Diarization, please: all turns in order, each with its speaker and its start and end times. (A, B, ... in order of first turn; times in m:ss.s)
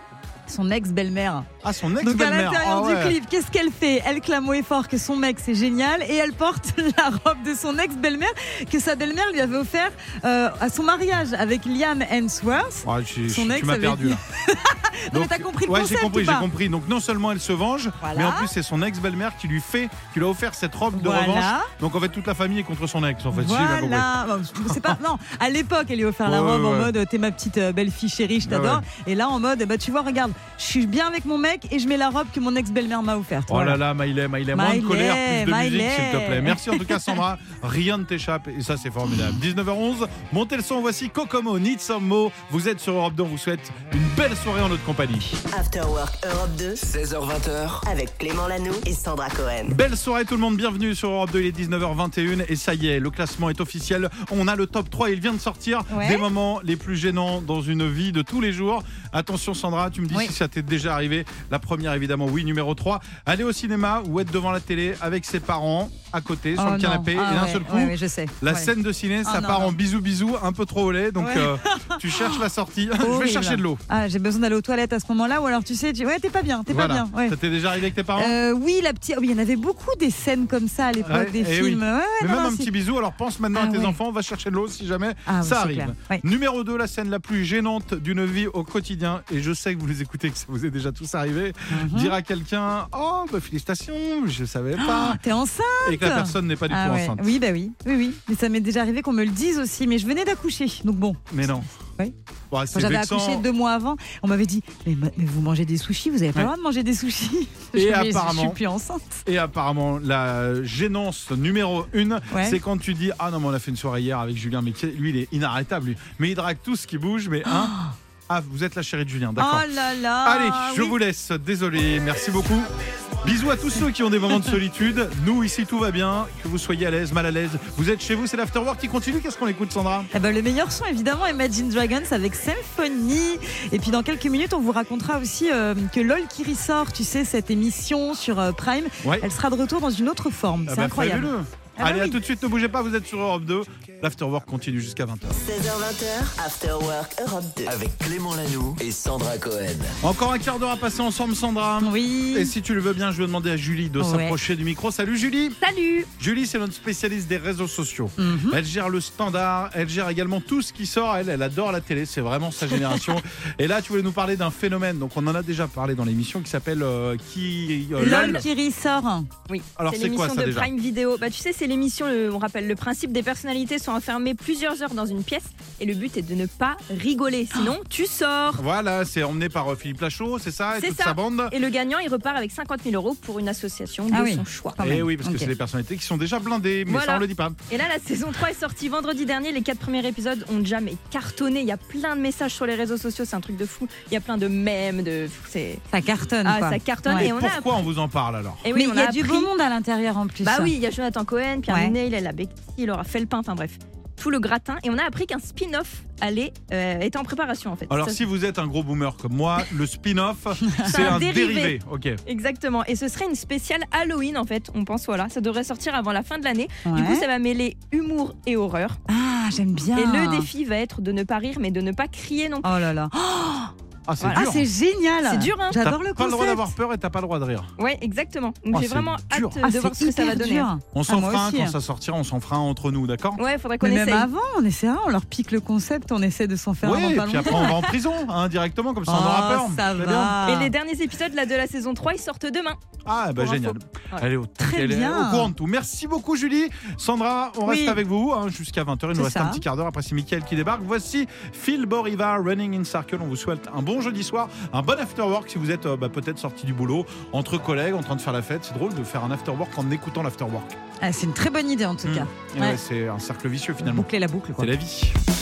0:00.5-0:01.5 A
0:01.6-0:03.2 B
0:02.0-0:16.5 A
0:12.8-0:14.2 B
0:15.1-0:24.1 B
0:18.0-0:18.5 A
0:20.9-0:21.7 A
0:23.3-0:33.8 A
0:24.7-0:25.0 B
0:26.2-0:26.9 B
0:28.4-0:28.8 B
0:33.5-0:45.4 B
0:34.5-0:37.1 A
0:45.5-0:46.8 C
0:46.8-0:47.8 D
0:47.8-0:49.8 C
0:49.6-1:13.8 B
0:55.9-0:56.2 A
1:06.6-1:09.8 A
1:11.2-1:12.4 A
1:13.0-1:17.4 A
1:16.7-1:18.3 B
1:18.1-1:22.7 A
1:21.0-1:35.2 B
1:23.5-1:24.0 A
1:25.3-1:26.2 A
1:31.7-1:32.2 A
1:34.8-1:42.1 A
1:35.8-1:37.4 B
1:41.3-1:41.7 B
1:42.5-1:43.4 B
1:42.7-1:49.2 A
1:47.7-1:48.6 B
1:49.2-1:57.7 B
1:52.3-1:52.6 A
1:57.5-1:57.9 A
1:58.3-1:59.7 B
1:59.4-2:01.0 A
2:00.2-2:02.7 B
2:03.2-2:10.1 B
2:10.1-2:22.2 A
2:20.6-2:25.4 B
2:25.3-2:27.8 C
2:27.7-2:29.9 D
2:30.0-2:35.6 B
2:31.8-2:32.5 A
2:34.0-2:34.4 A
2:35.6-2:36.1 E
2:36.2-2:48.4 B
2:38.2-2:38.6 A
2:48.0-2:49.3 A
2:48.0-2:48.4 E
2:49.5-2:58.6 E
2:49.8-2:50.7 B
2:58.6-3:01.5 B
3:00.7-3:04.8 E
3:04.1-3:05.5 A
3:04.8-3:07.6 B
3:06.9-3:15.8 E
3:15.9-3:17.3 A
3:16.4-3:17.8 E
3:17.1-3:18.6 B
3:18.6-3:19.5 E
3:18.7-3:20.7 A
3:20.4-3:28.2 E
3:21.7-3:21.9 A
3:27.9-3:32.2 B
3:30.7-3:31.2 A
3:30.8-3:31.7 E
3:32.2-3:39.0 E
3:36.8-3:37.2 A
3:39.1-3:40.5 A
3:40.0-3:42.7 E
3:42.6-3:43.7 A
3:44.1-3:44.6 B
3:44.2-3:44.5 E
3:44.3-3:46.7 A
3:45.2-3:45.8 E
3:45.8-3:47.7 B
3:47.8-3:50.7 E
3:48.7-3:49.6 B
3:49.6-3:51.8 A
3:50.9-3:53.4 B
3:53.4-3:54.3 E
3:53.8-3:57.9 A
3:56.8-4:00.4 B
3:59.1-4:00.7 A
4:00.4-4:02.8 E
4:03.0-4:20.7 B
4:03.4-4:04.2 E
4:04.6-4:05.5 A
4:07.6-4:08.0 A
4:09.1-4:09.6 A
4:21.0-4:22.8 A
4:22.0-4:25.2 B
4:23.8-4:24.7 A